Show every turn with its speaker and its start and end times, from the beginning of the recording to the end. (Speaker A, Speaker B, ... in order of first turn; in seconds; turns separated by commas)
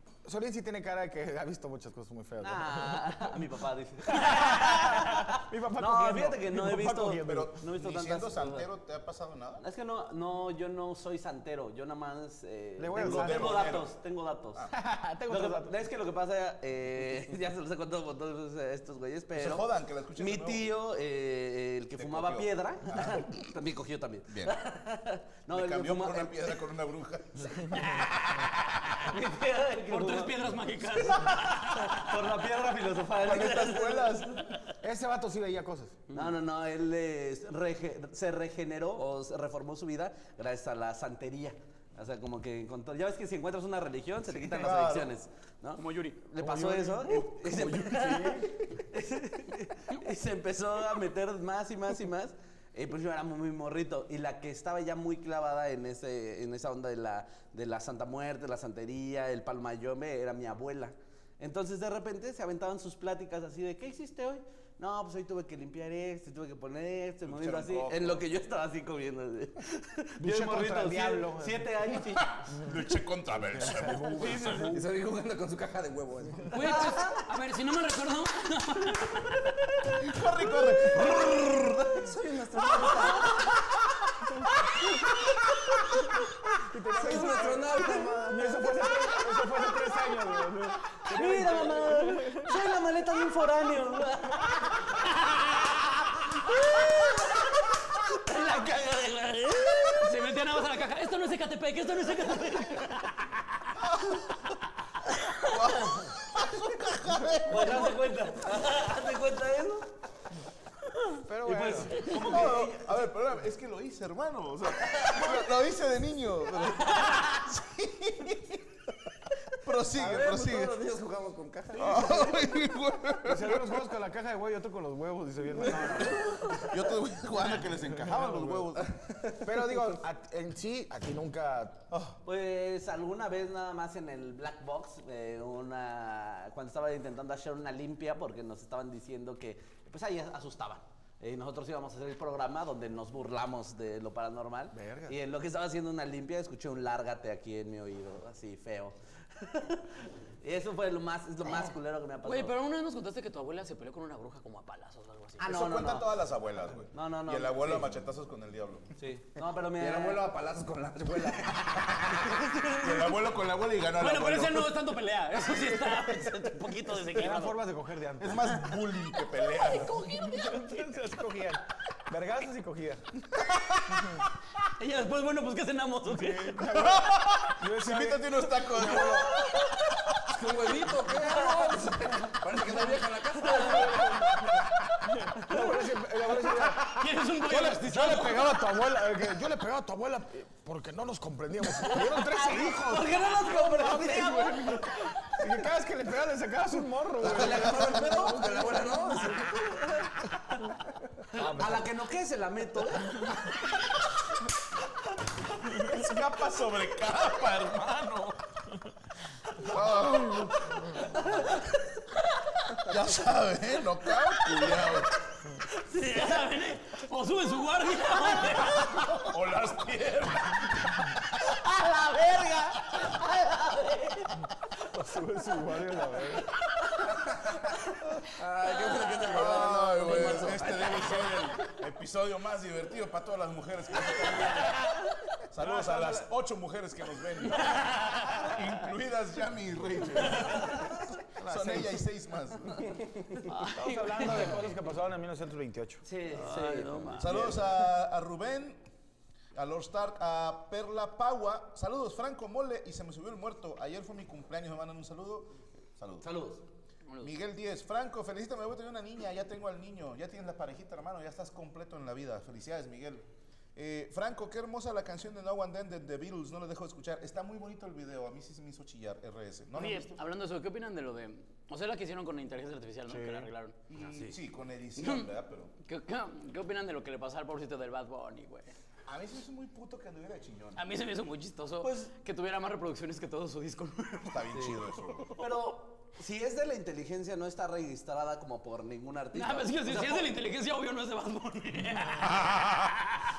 Speaker A: 0.2-3.3, Speaker B: 2.4-4.6, Speaker A: 4.2-7.6, Speaker B: 5.8-8.7, Speaker C: 7.2-9.6, Speaker B: 9.6-14.6, Speaker A: 12.8-13.7, Speaker C: 13.0-14.0, Speaker A: 14.7-15.8, Speaker B: 15.3-19.7, Speaker C: 19.4-20.7, Speaker B: 20.2-26.5, Speaker C: 22.0-23.4, Speaker C: 24.3-24.6, Speaker C: 25.5-28.1, Speaker B: 29.1-30.4, Speaker D: 29.9-32.1, Speaker B: 31.9-34.2, Speaker C: 33.2-34.5, Speaker A: 34.8-36.0, Speaker B: 36.1-72.4, Speaker C: 44.3-45.1, Speaker D: 45.8-46.2, Speaker A: 46.4-48.6, Speaker C: 67.2-68.3, Speaker A: 70.2-71.8, Speaker C: 72.1-74.7, Speaker A: 72.6-72.8, Speaker A: 73.3-74.8, Speaker E: 74.7-77.1, Speaker D: 76.5-79.5, Speaker C: 79.9-82.1, Speaker E: 80.9-83.4, Speaker A: 86.7-92.5, Speaker E: 87.0-88.7, Speaker B: 91.1-94.9, Speaker D: 95.2-95.7, Speaker B: 96.3-97.3, Speaker B: 98.1-99.9, Speaker D: 99.8-103.4, Speaker C: 103.9-104.2, Speaker C: 105.2-108.0, Speaker B: 107.5-109.9, Speaker A: 111.2-112.0, Speaker B: 111.5-113.0, Speaker C: 112.0-118.6, Speaker C: 119.6-120.8, Speaker E: 119.9-122.3, Speaker C: 121.7-123.8, Speaker A: 123.2-126.5, Speaker B: 125.7-126.6, Speaker C: 126.6-129.0, Speaker A: 128.0-128.7, Speaker A: 129.4-131.9, Speaker B: 132.2-152.5, Speaker A: 144.7-145.2, Speaker D: 152.2-155.4, Speaker B: 155.4-156.1, Speaker C: 155.4-158.9, Speaker B: 156.9-157.9, Speaker B: 159.0-160.3, Speaker E: 159.7-162.5, Speaker C: 162.8-164.7, Speaker D: 164.0-167.6, Speaker A: 167.1-168.7, Speaker C: 168.2-170.2, Speaker D: 169.6-171.0, Speaker A: 169.9-173.1, Speaker D: 174.8-176.6, Speaker A: 176.1-179.5, Speaker C: 176.7-179.7, Speaker E: 180.3-184.1, Speaker A: 183.6-199.6, Speaker D: 186.8-188.5, Speaker D: 191.8-192.2, Speaker B: 192.5-195.0, Speaker E: 197.2-199.5, Speaker A: 201.3-201.9, Speaker B: 201.4-203.2, Speaker C: 205.7-208.4, Speaker C: 209.6-211.0, Speaker C: 212.8-215.2, Speaker D: 215.8-219.2, Speaker C: 218.6-221.2, Speaker B: 222.3-222.7, Speaker B: 223.9-224.2, Speaker A: 224.9-226.5, Speaker E: 228.3-231.2, Speaker C: 229.3-234.9, Speaker A: 230.3-231.0, Speaker C: 235.5-242.9, Speaker A: 235.6-236.3, Speaker A: 241.4-242.0, Speaker D: 243.5-244.6, Speaker A: 243.6-246.0, Speaker B: 246.1-247.1, Speaker D: 246.3-247.6, Speaker E: 246.5-247.0, Speaker C: 247.2-248.8, Speaker C: 249.6-256.3, Speaker B: 256.2-256.6, Speaker C: 257.2-263.2, Speaker C: 263.8-270.2, Speaker D: 269.7-273.8, Speaker A: 273.1-273.5, Speaker C: 273.9-275.7, Speaker D: 275.0-275.3, Speaker D: 275.9-278.7, Speaker C: 279.1-280.9, Speaker D: 280.8-284.7, Speaker B: 281.8-282.1, Speaker C: 284.3-285.4, Speaker B: 285.4-290.3, Speaker D: 289.3-292.5, Speaker C: 292.2-293.0